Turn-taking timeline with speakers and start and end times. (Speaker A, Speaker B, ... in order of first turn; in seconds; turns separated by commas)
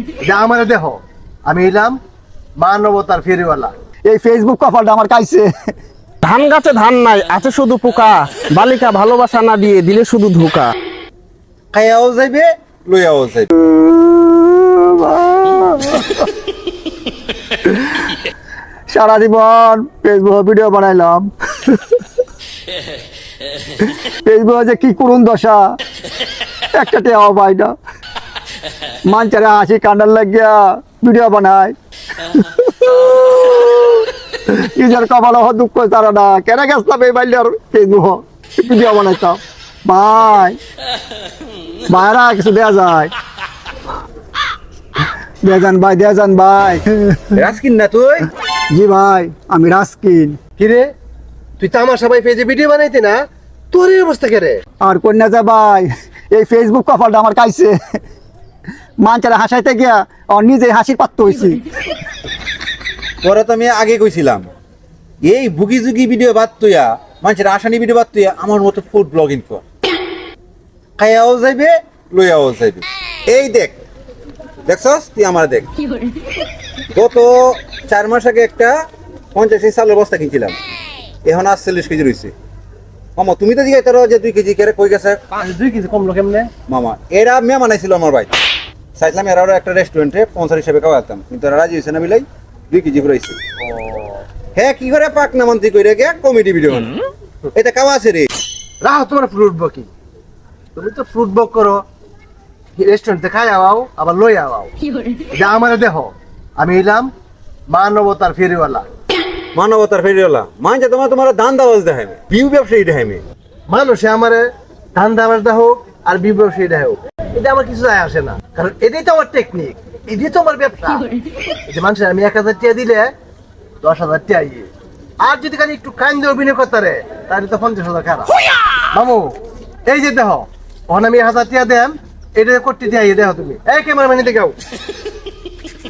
Speaker A: 0.2-2.0, Speaker A: 2.6-3.7, Speaker B: 4.1-5.5, Speaker C: 6.2-10.7, Speaker D: 11.7-13.5, Speaker B: 13.6-16.3, Speaker B: 17.6-18.1, Speaker B: 18.9-22.0, Speaker B: 23.8-25.7, Speaker B: 26.7-27.8, Speaker B: 29.1-31.8, Speaker B: 32.3-40.6, Speaker B: 41.9-43.1, Speaker B: 45.4-47.4, Speaker D: 47.3-48.3, Speaker B: 48.7-50.4, Speaker A: 50.6-50.9, Speaker A: 51.6-54.6, Speaker B: 54.8-58.0, Speaker B: 59.0-61.6, Speaker D: 63.2-64.5, Speaker D: 65.2-69.6, Speaker D: 71.0-73.8, Speaker D: 74.7-75.7, Speaker D: 76.9-78.8, Speaker D: 79.3-80.6, Speaker D: 81.2-82.3, Speaker D: 83.2-85.2, Speaker A: 85.4-86.5, Speaker D: 86.7-88.3, Speaker D: 89.0-93.4, Speaker A: 93.6-94.2, Speaker D: 94.5-96.9, Speaker D: 97.5-98.3, Speaker A: 98.8-99.9, Speaker A: 100.8-101.8, Speaker A: 102.8-104.7, Speaker A: 105.3-107.1, Speaker A: 107.7-108.9, Speaker D: 109.5-113.2, Speaker A: 113.7-121.1, Speaker A: 121.7-123.1, Speaker A: 123.8-124.7, Speaker A: 125.2-128.4, Speaker A: 128.9-134.6